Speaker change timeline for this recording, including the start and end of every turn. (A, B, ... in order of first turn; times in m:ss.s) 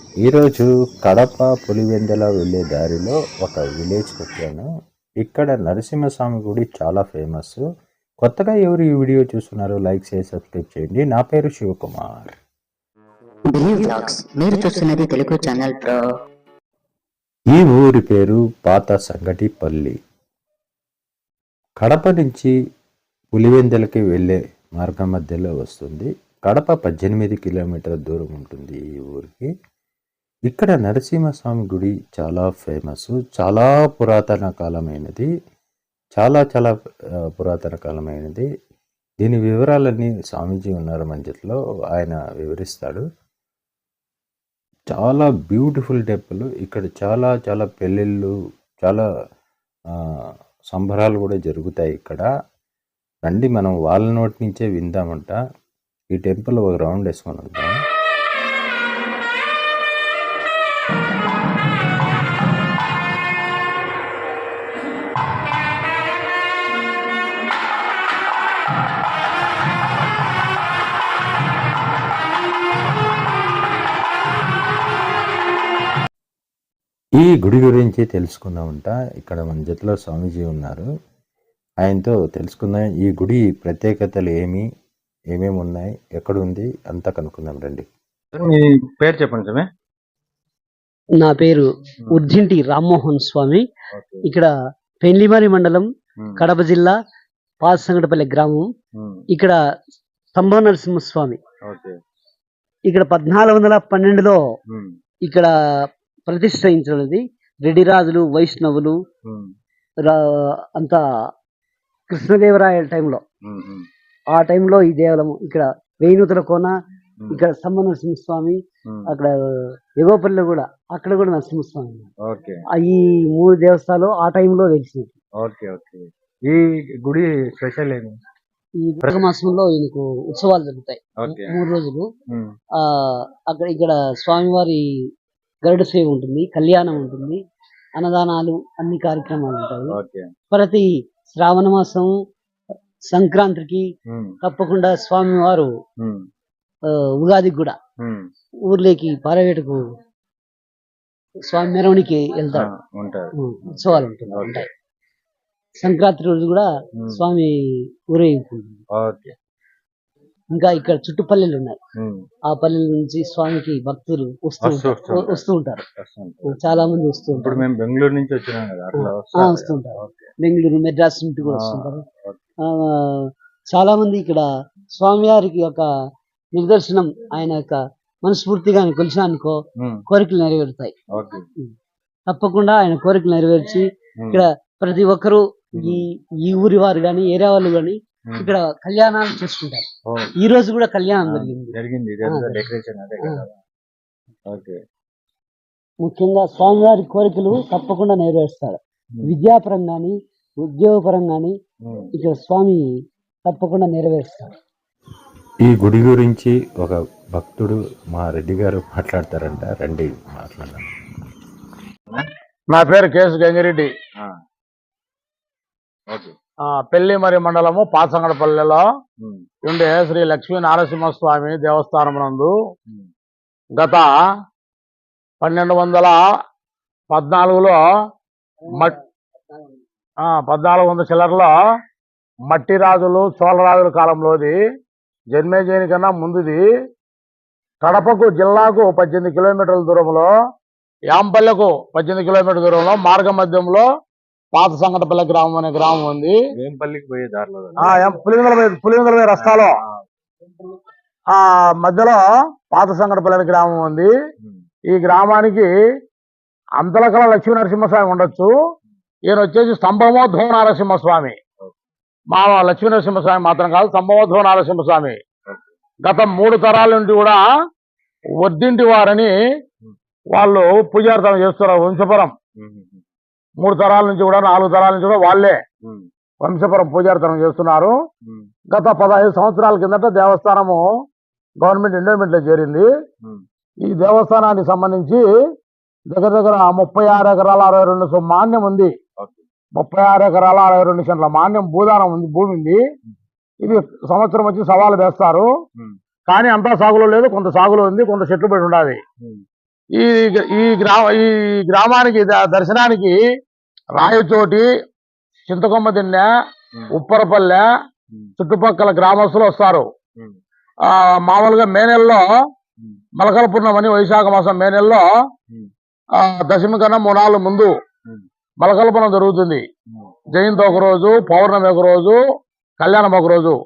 0:00.2-0:04.7 A
0:05.2-0:07.6 A
0:08.2-0:12.4 A
0:13.4-0:16.1 B
0:17.5-0:20.0 A
0:21.8-0:22.5 A
0:23.3-0:29.5 A
0:30.5-0:35.3 A
0:36.2-0:36.7 A
0:37.3-0:38.4 A
0:39.2-0:43.0 A
0:44.9-0:49.0 A
0:50.7-0:52.3 A
0:53.2-0:55.4 A
0:56.1-0:57.8 A
1:17.2-1:20.9 A
1:21.8-1:24.6 A
1:25.3-1:27.8 A
1:28.3-1:29.7 C
1:31.2-1:33.6 D
1:33.9-1:34.3 C
1:34.2-1:34.5 D
1:35.0-1:36.9 D
1:37.6-1:38.7 D
1:38.9-1:39.2 C
1:40.3-1:41.4 D
1:41.6-1:41.9 C
1:42.9-1:44.4 D
1:44.7-1:45.0 C
1:46.3-1:49.0 D
1:49.2-1:49.5 C
1:50.0-1:51.0 D
1:52.1-1:53.2 D
1:53.4-1:53.9 C
1:54.3-1:56.7 D
1:57.3-1:59.3 D
2:00.0-2:02.1 D
2:02.2-2:02.6 C
2:02.8-2:05.2 D
2:05.4-2:08.2 C
2:08.8-2:12.1 D
2:11.2-2:11.6 C
2:12.8-2:14.8 D
2:15.6-2:17.4 D
2:18.0-2:20.0 D
2:19.9-2:20.3 C
2:20.5-2:22.1 D
2:23.1-2:23.8 D
2:24.1-2:24.4 C
2:24.4-2:25.7 D
2:26.0-2:26.3 C
2:27.2-2:27.8 D
2:28.0-2:28.3 C
2:28.7-2:29.8 D
2:31.5-2:32.7 D
2:32.5-2:34.7 C
2:33.4-2:34.7 D
2:35.8-2:37.5 D
2:37.0-2:37.2 C
2:38.1-2:38.8 D
2:38.9-2:39.3 C
2:40.5-2:41.8 D
2:42.0-2:42.3 C
2:42.5-2:45.8 D
2:44.6-2:45.4 C
2:46.0-2:46.6 C
2:46.4-2:47.6 D
2:47.3-2:50.3 C
2:49.0-2:52.0 D
2:51.4-2:52.4 C
2:52.7-2:55.8 D
2:56.5-3:00.9 D
2:59.8-3:00.0 C
3:01.1-3:01.4 C
3:02.3-3:12.6 D
3:04.2-3:04.4 C
3:05.8-3:06.0 C
3:08.3-3:08.5 C
3:10.1-3:10.3 C
3:11.3-3:13.5 C
3:14.5-3:14.8 C
3:16.0-3:21.5 D
3:21.8-3:22.1 C
3:22.1-3:22.8 D
3:23.5-3:24.5 D
3:25.6-3:30.8 A
3:32.7-3:33.9 E
3:36.1-3:36.3 C
3:36.7-3:38.8 E
3:39.2-3:39.4 C
3:39.6-3:42.5 E
3:43.8-3:44.1 E
3:45.4-3:46.2 E
3:47.1-3:47.8 E
3:50.2-3:51.5 E
3:52.5-3:54.6 E
3:55.3-3:56.6 E
3:57.8-4:00.3 E
4:01.1-4:03.9 E
4:04.5-4:06.4 E
4:06.6-4:08.0 C
4:07.8-4:09.7 E
4:09.4-4:10.0 C
4:11.3-4:14.1 E
4:14.9-4:15.7 E
4:16.8-4:18.5 E
4:19.3-4:21.4 E
4:22.3-4:25.2 E
4:26.0-4:27.5 E
4:28.4-4:29.3 E
4:30.3-4:32.3 E
4:32.6-4:33.0 C
4:33.6-4:35.6 E
4:36.4-4:37.9 E
4:38.7-4:40.8 E
4:41.6-4:42.9 E
4:43.9-4:45.2 E
4:46.1-4:48.9 E
4:49.8-4:52.8 E
4:53.6-4:55.5 E
4:56.3-4:59.0 E
5:00.0-5:03.2 E
5:03.9-5:04.7 E
5:05.5-5:06.3 E
5:07.0-5:07.6 E
5:08.4-5:09.9 E
5:10.8-5:12.3 E
5:13.2-5:15.1 E
5:16.2-5:17.7 E
5:18.6-5:19.6 E
5:19.9-5:20.2 C
5:20.3-5:22.2 E
5:22.8-5:23.6 E